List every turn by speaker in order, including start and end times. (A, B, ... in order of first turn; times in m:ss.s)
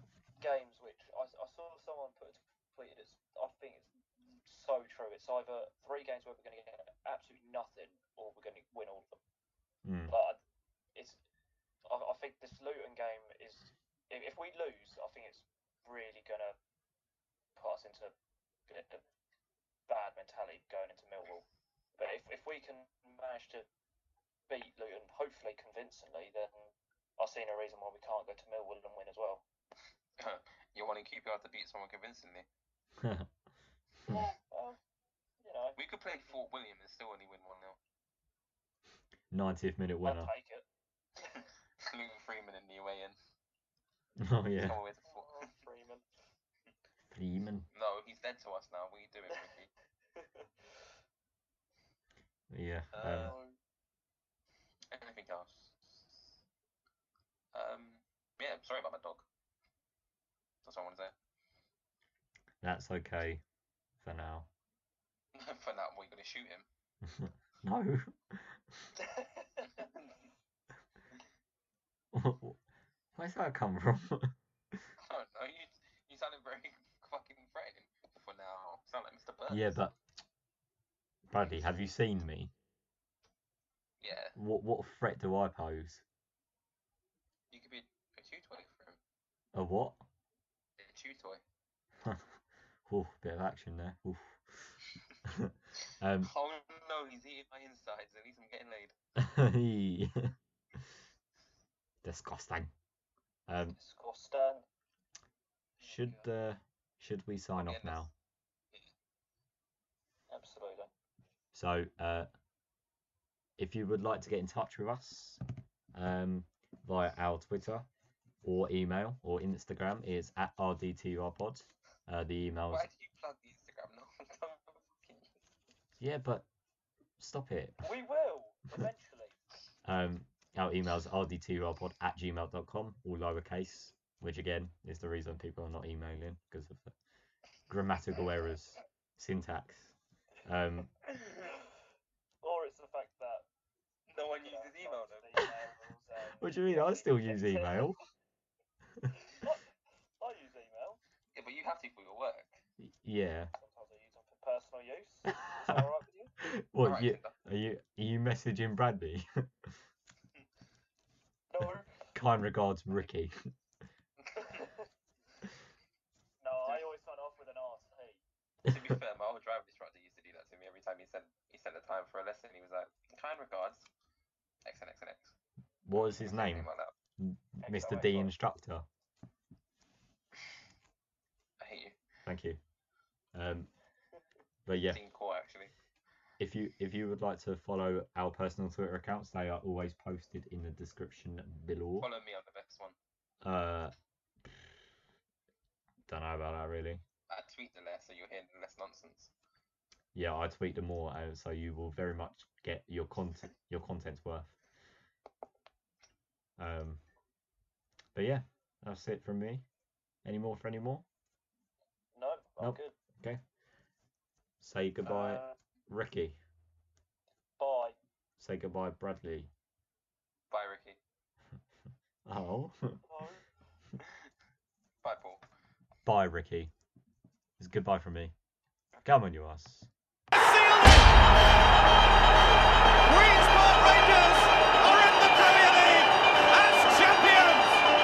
0:00.4-0:03.9 A
0:04.5-0:09.2 A
0:09.8-0:10.1 B
0:10.1-0:10.4 A
0:11.8-0:16.6 A
0:17.6-0:18.1 A
0:18.7-0:19.0 A
0:19.9-0:21.5 A
0:22.0-0:23.7 A
0:24.5-0:29.4 A
0:30.2-0:32.5 C
0:33.0-0:33.3 B
0:34.1-0:34.8 A
0:35.4-0:35.8 A
0:35.8-0:37.8 C
0:39.3-0:40.3 B
0:40.0-0:40.7 A
0:41.8-0:43.2 C
0:44.2-0:44.8 B
0:44.6-0:45.5 C
0:45.0-0:46.0 A
0:47.1-0:47.7 B
0:47.7-0:49.7 C
0:50.2-0:50.5 A
0:52.5-0:53.3 B
0:52.9-0:53.5 C
0:53.1-0:53.5 A
0:54.9-0:56.4 C
0:57.5-0:59.3 C
1:00.6-1:01.2 C
1:02.6-1:03.4 B
1:04.0-1:04.5 B
1:05.4-1:06.7 C
1:07.0-1:08.9 B
1:09.1-1:09.7 A
1:12.1-1:12.6 B
1:13.2-1:14.8 B
1:15.0-1:19.8 C
1:19.5-1:20.0 B
1:21.3-1:22.5 B
1:24.0-1:24.4 C
1:24.4-1:26.0 B
1:27.5-1:29.0 C
1:29.5-1:30.0 B
1:30.8-1:31.4 C
1:32.0-1:36.3 B
1:36.2-1:39.0 C
1:39.2-1:40.8 B
1:42.0-1:42.7 B
1:43.5-1:43.8 B
1:43.8-1:44.7 A
1:45.8-1:46.3 A
1:45.8-1:48.1 B
1:47.6-1:48.1 C
1:50.3-1:50.9 A
1:51.5-1:52.3 B
1:53.6-1:55.4 B
1:55.9-1:57.9 B
1:58.4-2:02.9 B
2:02.7-2:05.4 C
2:06.0-2:06.5 B
2:07.2-2:07.9 B
2:07.8-2:09.4 A
2:09.8-2:17.0 B
2:17.7-2:20.9 B
2:22.4-2:23.4 A
2:24.1-2:25.4 C
2:24.4-2:27.9 A
2:26.4-2:28.0 B
2:29.2-2:31.0 A
2:31.3-2:32.6 C
2:32.8-2:33.5 B
2:33.6-2:36.3 A
2:35.3-2:35.9 B
2:36.4-2:39.8 B
2:36.8-2:37.4 C
2:41.5-2:42.1 A
2:42.1-2:43.5 B
2:44.2-2:44.7 C
2:44.4-2:44.8 A
2:46.4-2:48.2 A
2:48.6-2:53.9 C
2:48.7-2:49.0 B
2:54.6-2:55.4 C
2:55.9-2:58.9 B
2:55.9-2:56.9 C
2:57.6-2:58.3 A
3:01.6-3:02.0 C
3:02.2-3:02.6 B
3:03.3-3:03.7 B
3:04.7-3:05.0 B
3:04.8-3:05.7 C
3:06.4-3:12.1 B
3:12.0-3:13.0 C
3:13.4-3:14.8 B
3:16.1-3:17.0 B
3:17.3-3:19.3 C
3:20.1-3:24.6 B
3:26.6-3:27.0 B
3:28.2-3:29.6 B
3:30.2-3:31.0 B
3:32.2-3:33.0 A
3:32.6-3:33.4 B
3:34.6-3:36.4 B
3:35.0-3:35.6 A
3:37.6-3:38.0 A
3:38.4-3:39.5 B
3:40.5-3:41.0 C
3:42.2-3:43.0 B
3:43.1-3:43.5 A
3:45.0-3:45.4 C
3:46.0-3:46.7 B
3:47.6-3:48.4 B
3:49.0-3:49.9 B
3:50.3-3:51.2 D
3:53.1-3:57.8 D